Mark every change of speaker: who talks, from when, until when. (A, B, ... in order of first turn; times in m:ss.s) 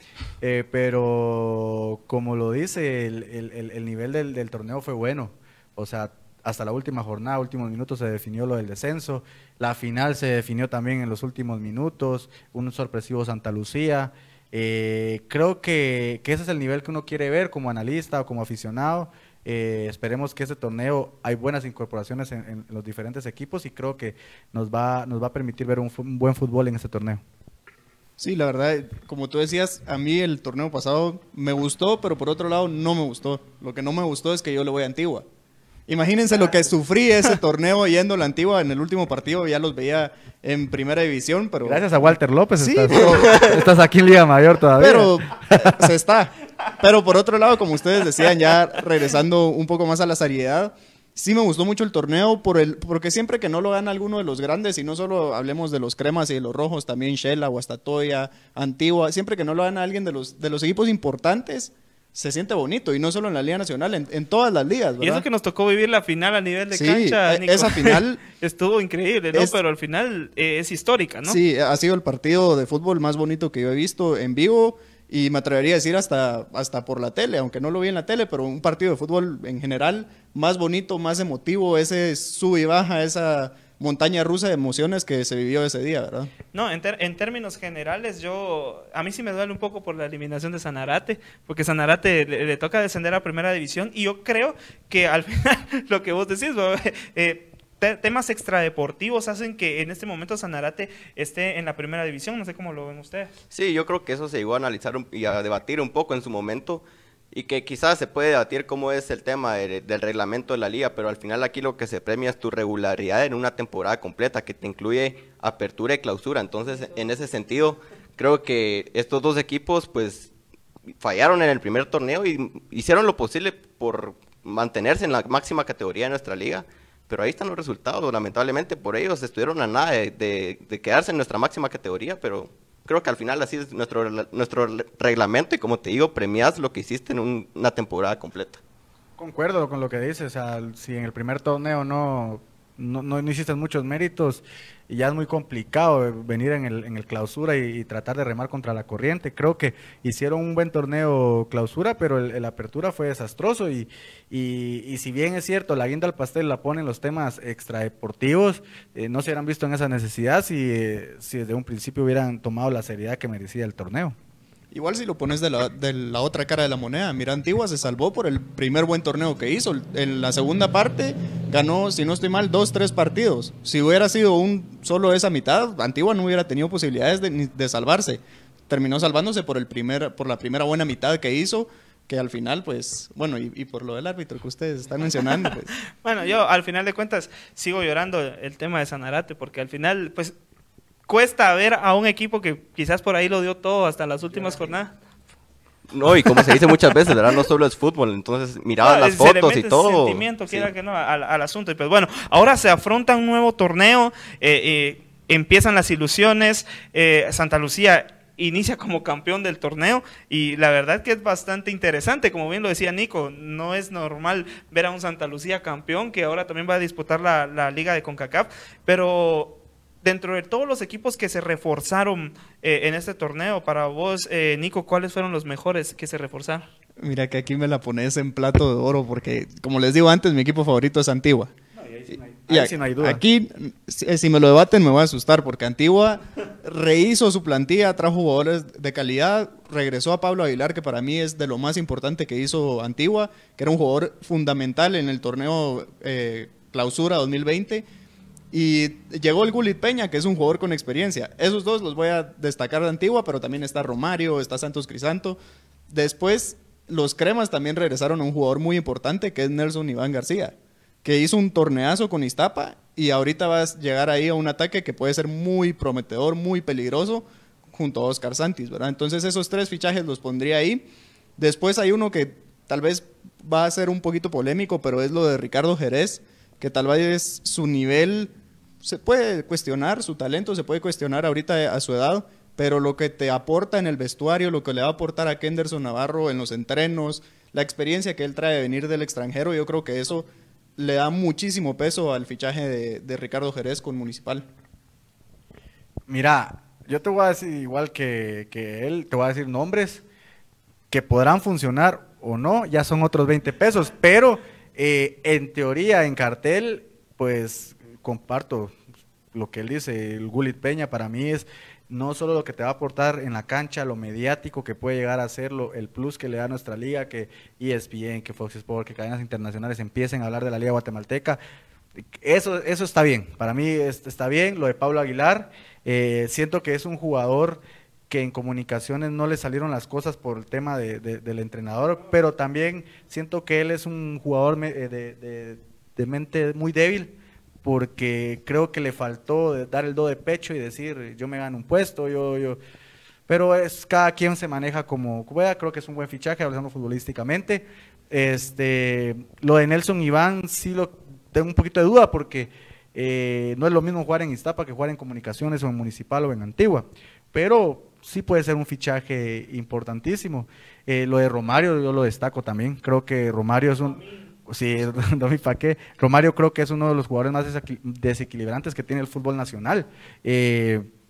0:00.4-0:27.2 A
0:28.2-0:35.2 B
0:35.9-0:43.7 B
0:41.6-0:45.9 A
0:44.8-1:05.2 B
1:05.0-1:11.4 C
1:06.7-1:08.2 B
1:11.2-1:26.3 B
1:26.5-1:43.3 C
1:43.5-2:00.3 D
2:01.0-2:18.6 D
2:19.2-2:44.1 A
2:44.7-3:05.7 B
3:06.0-3:10.3 C
3:11.1-3:14.9 C
3:15.9-3:20.7 D
3:16.3-3:17.2 C
3:18.8-3:46.6 C
3:47.0-3:51.5 B
3:51.8-3:53.2 A
3:52.5-4:07.8 B
4:08.5-4:15.4 B
4:15.9-4:30.8 B
4:31.4-4:54.5 B
4:56.1-5:00.0 A
5:00.9-5:08.7 A
5:09.3-5:21.4 A
5:22.2-5:42.6 A
5:43.3-6:10.9 A